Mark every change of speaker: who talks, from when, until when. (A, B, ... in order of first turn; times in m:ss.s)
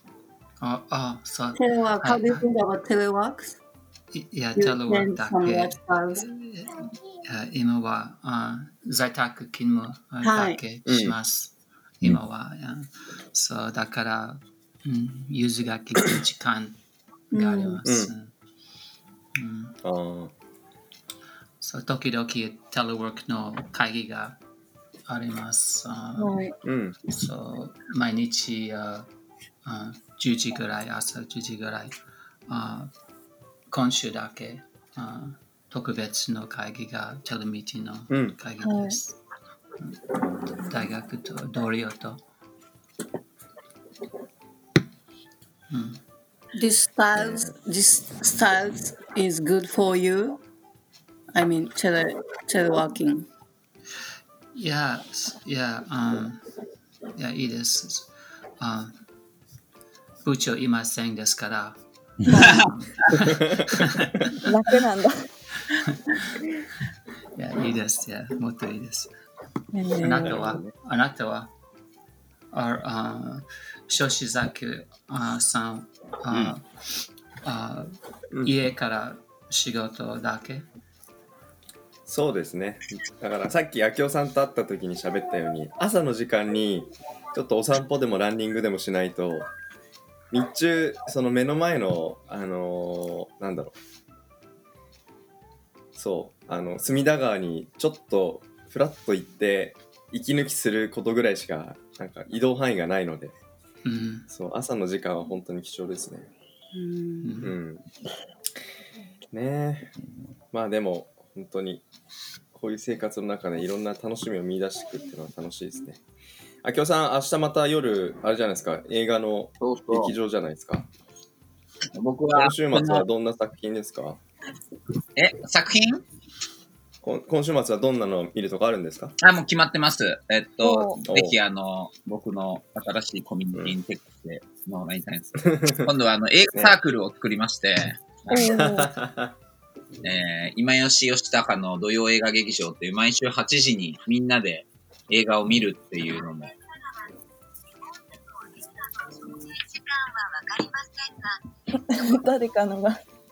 0:00.6-0:02.4 A
0:01.5-0:03.6 B
0:04.1-0:16.8 A
0:04.6-0:06.2 B
0:10.2-0:10.6 B
0:10.8-0:11.2 C
0:17.3-0:17.8 B
0:17.3-0:18.3 A
0:17.8-0:18.1 C
0:19.3-0:19.8 A
0:19.8-0:20.3 C
0:21.6-0:24.4 A
0:25.1-0:26.4 A
0:26.2-0:26.6 B
0:26.6-0:27.0 C
0:27.1-0:29.1 A
0:29.6-0:31.9 A
0:32.5-0:32.9 A
0:33.7-0:39.2 A
0:38.1-0:38.4 C
0:38.6-0:39.0 B
0:39.8-0:42.2 A
0:45.7-0:46.0 A
0:46.5-0:50.4 B
0:47.2-0:47.5 C
0:51.3-0:53.3 B
0:54.5-0:56.4 A
0:57.1-0:58.9 A
1:00.2-1:01.8 A
1:02.3-1:02.7 D
1:02.3-1:04.4 A
1:02.4-1:02.7 E
1:04.4-1:05.2 D
1:05.6-1:06.3 A
1:07.4-1:09.1 A
1:09.7-1:10.4 B
1:10.0-1:11.5 A
1:10.2-1:10.7 C
1:12.5-1:16.6 A
1:17.4-1:20.6 A
1:22.1-1:29.5 C
1:30.3-1:33.7 C
1:36.0-1:43.3 C
1:43.8-1:44.3 A
1:44.3-1:46.3 C
1:46.7-1:47.4 B
1:47.2-1:47.5 A
1:47.4-1:47.8 C
1:49.3-1:50.0 C
1:50.5-1:51.8 C
1:52.5-1:56.0 C
1:56.6-2:00.9 C
1:59.6-2:00.1 E
2:01.9-2:03.0 E
2:02.3-2:04.2 C
2:05.2-2:06.0 E
2:07.0-2:09.1 C
2:09.2-2:18.7 E
2:10.6-2:11.0 D
2:11.1-2:11.4 C
2:15.4-2:15.8 C
2:18.3-2:18.9 D
2:18.4-2:19.3 C
2:20.0-2:26.5 E
2:29.3-2:30.8 E
2:31.7-2:33.0 D